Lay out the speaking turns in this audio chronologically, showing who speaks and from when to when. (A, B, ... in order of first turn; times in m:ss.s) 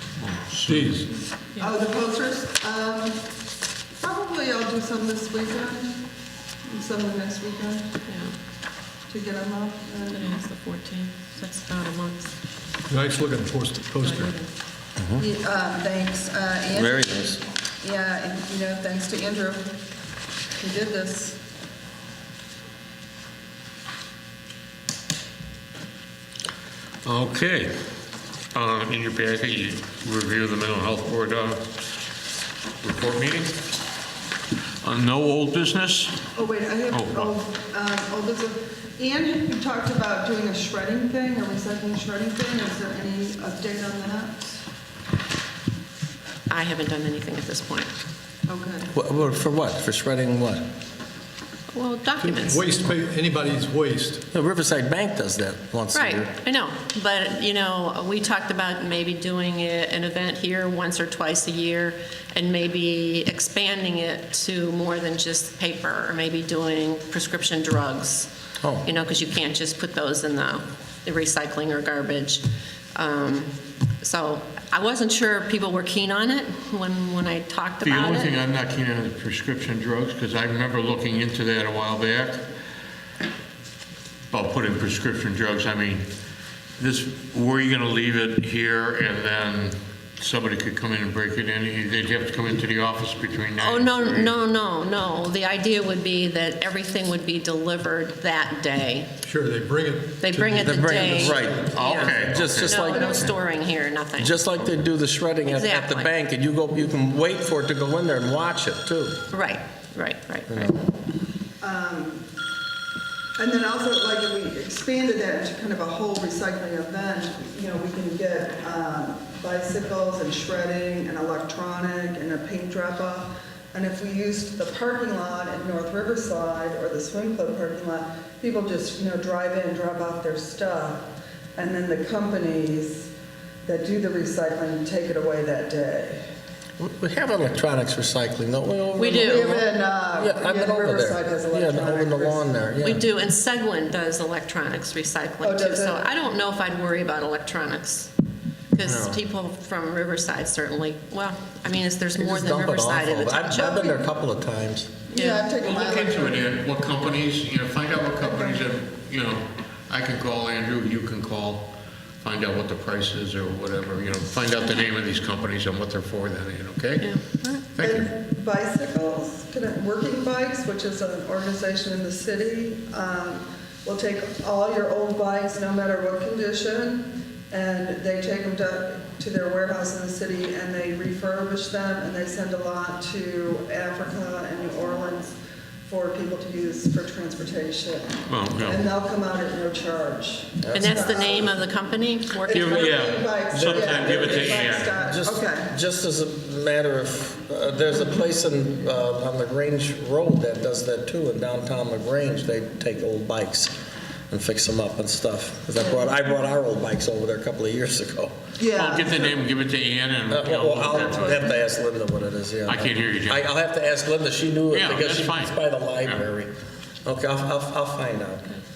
0:00.2-0:01.1 A
0:00.6-0:01.1 B
0:01.6-0:03.3 C
0:04.0-0:06.0 C
0:06.6-0:07.9 C
0:08.1-0:08.3 D
0:09.1-0:10.4 C
0:10.1-0:12.3 D
0:12.9-0:14.3 B
0:14.0-0:14.5 D
0:15.2-0:19.8 C
0:16.7-0:17.4 E
0:20.6-0:21.4 C
0:27.0-0:27.8 A
0:28.5-0:31.6 A
0:32.8-0:33.6 A
0:34.8-0:36.2 A
0:36.4-0:44.6 C
0:36.9-0:37.4 A
0:46.5-0:47.9 D
0:48.5-0:48.9 C
0:48.9-0:50.7 E
0:51.7-0:52.8 D
0:52.2-0:54.2 B
0:54.3-0:56.3 E
0:55.9-1:08.3 D
1:08.6-1:08.9 E
1:08.8-1:12.4 D
1:13.0-1:18.4 D
1:17.8-1:22.4 A
1:24.3-1:26.1 A
1:26.8-1:34.4 A
1:33.6-1:39.1 D
1:39.2-1:42.6 B
1:40.2-1:44.4 D
1:40.6-1:43.3 E
1:41.7-1:42.9 A
1:44.2-1:49.2 E
1:45.5-1:46.1 D
1:49.3-1:50.9 D
1:50.5-1:50.8 E
1:51.6-1:52.3 C
1:53.4-2:13.1 C
2:13.6-2:16.2 C
2:16.8-2:23.1 E
2:19.0-2:19.6 D
2:19.2-2:22.4 C
2:22.8-2:28.1 D
2:25.4-2:26.1 C
2:28.7-2:34.0 D
2:28.8-2:29.2 E
2:32.2-2:34.9 E
2:35.1-2:36.5 C
2:35.1-2:35.5 D
2:35.6-2:41.7 A
2:38.2-2:38.7 C
2:42.2-2:48.1 A
2:47.0-2:47.6 D
2:47.8-3:05.4 C
3:05.9-3:11.6 C
3:08.3-3:08.8 A
3:10.6-3:11.3 E
3:10.7-3:13.0 D
3:12.4-3:15.7 C
3:12.5-3:15.0 A
3:13.5-3:23.8 E
3:24.3-3:28.4 E
3:28.6-3:29.4 C
3:28.7-3:31.5 A
3:30.3-3:36.5 E
3:30.9-3:31.4 C
3:32.7-3:33.5 A
3:34.7-3:36.2 A
3:37.0-3:38.5 E